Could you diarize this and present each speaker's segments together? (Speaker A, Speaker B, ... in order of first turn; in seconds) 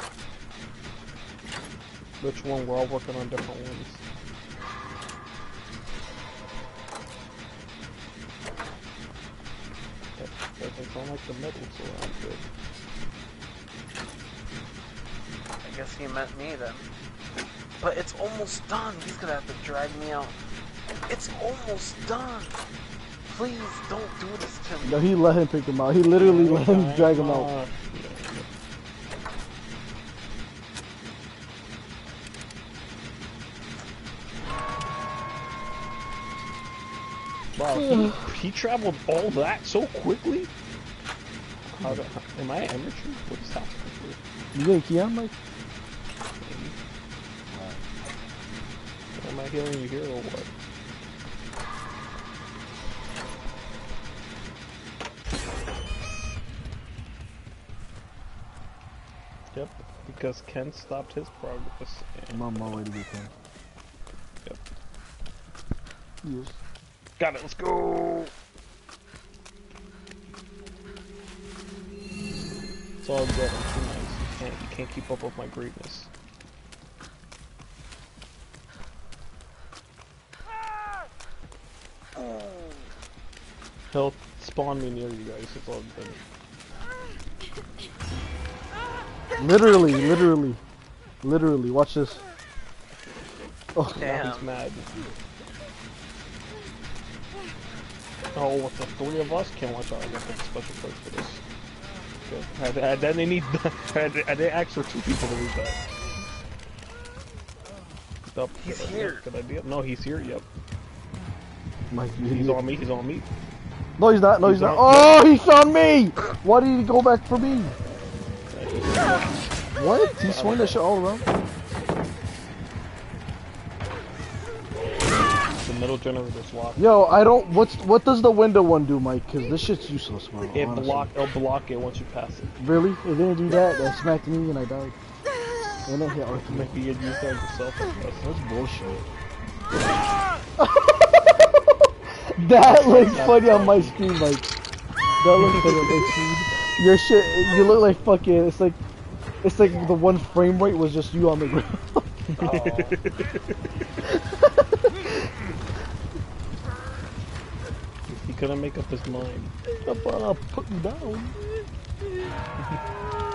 Speaker A: 2.2-4.0, 10.2-12.5, 26.1-28.5, 37.5-40.5, 41.7-44.2, 46.4-46.8, 49.2-50.5, 59.5-62.8, 67.2-68.3, 73.0-76.1, 83.9-86.2, 94.0-95.1, 98.3-101.4, 102.3-105.9, 108.3-110.5, 112.2-113.3, 114.4-115.2, 118.5-119.3, 120.2-120.8, 125.5-126.9, 130.5-132.5, 136.3-138.3, 142.6-144.1, 145.4-146.1, 152.3-153.6, 158.1-159.5
Speaker B: 15.6-16.9, 17.8-20.4, 21.1-22.6, 23.3-25.1, 94.0-94.5, 108.6-109.2, 152.4-153.0
Speaker C: 24.8-27.5, 37.8-38.3, 44.5-45.3, 47.5-47.8, 62.3-63.3, 66.2-66.6, 89.4-90.6, 91.2-92.2, 93.8-94.2, 111.9-112.6, 114.0-117.8, 119.8-121.2, 126.8-131.1, 132.6-135.0, 135.8-136.8, 138.2-139.0, 140.6-141.7, 142.3-144.5, 145.2-148.8, 149.4-152.3, 154.1-155.3, 159.8-161.4